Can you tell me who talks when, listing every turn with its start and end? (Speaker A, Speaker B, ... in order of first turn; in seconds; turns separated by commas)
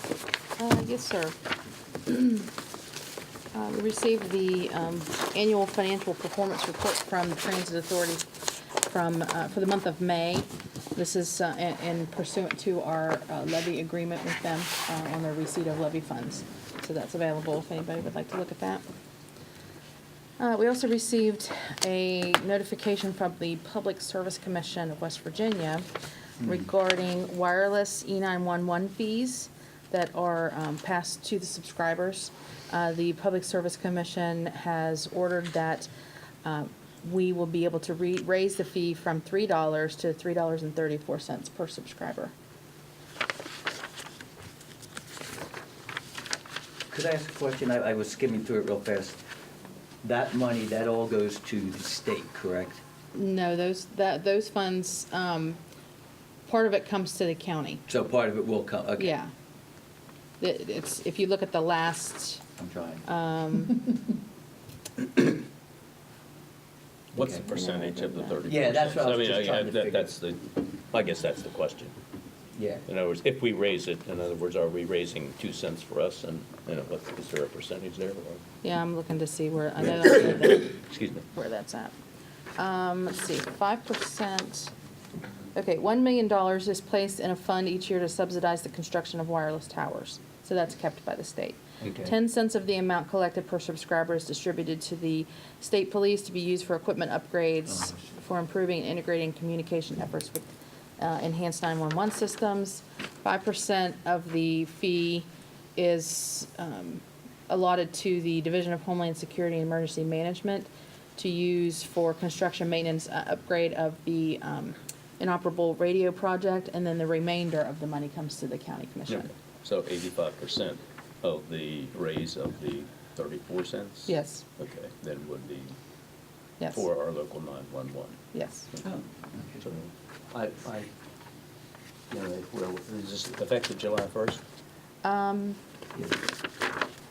Speaker A: 0.6-1.3, Speaker A: 2.0-2.5, Speaker A: 3.5-8.2, Speaker A: 8.8-18.8, Speaker A: 20.4-25.9, Speaker A: 26.4-35.9, Speaker A: 36.4-42.3, Speaker B: 46.9-49.2, Speaker B: 50.0-52.8, Speaker A: 53.1-55.6, Speaker A: 56.5-57.8, Speaker B: 57.9-59.1, Speaker A: 59.0-59.3, Speaker A: 60.4-62.4, Speaker B: 62.6-63.0, Speaker A: 63.0-63.8, Speaker C: 67.1-71.9, Speaker B: 67.2-67.4, Speaker A: 67.5-68.4, Speaker B: 68.5-70.1, Speaker B: 72.5-72.8, Speaker C: 72.9-78.4, Speaker A: 78.6-80.8, Speaker C: 80.8-81.2, Speaker A: 81.3-81.9, Speaker A: 82.6-84.7, Speaker A: 85.5-100.5, Speaker B: 91.8-92.1, Speaker B: 97.7-98.1, Speaker A: 101.0-119.3, Speaker C: 119.1-125.7, Speaker A: 124.1-124.4, Speaker C: 126.7-128.2, Speaker A: 128.3-128.7, Speaker B: 128.8-129.6, Speaker C: 129.6-130.9, Speaker C: 132.1-134.4, Speaker A: 135.0-135.6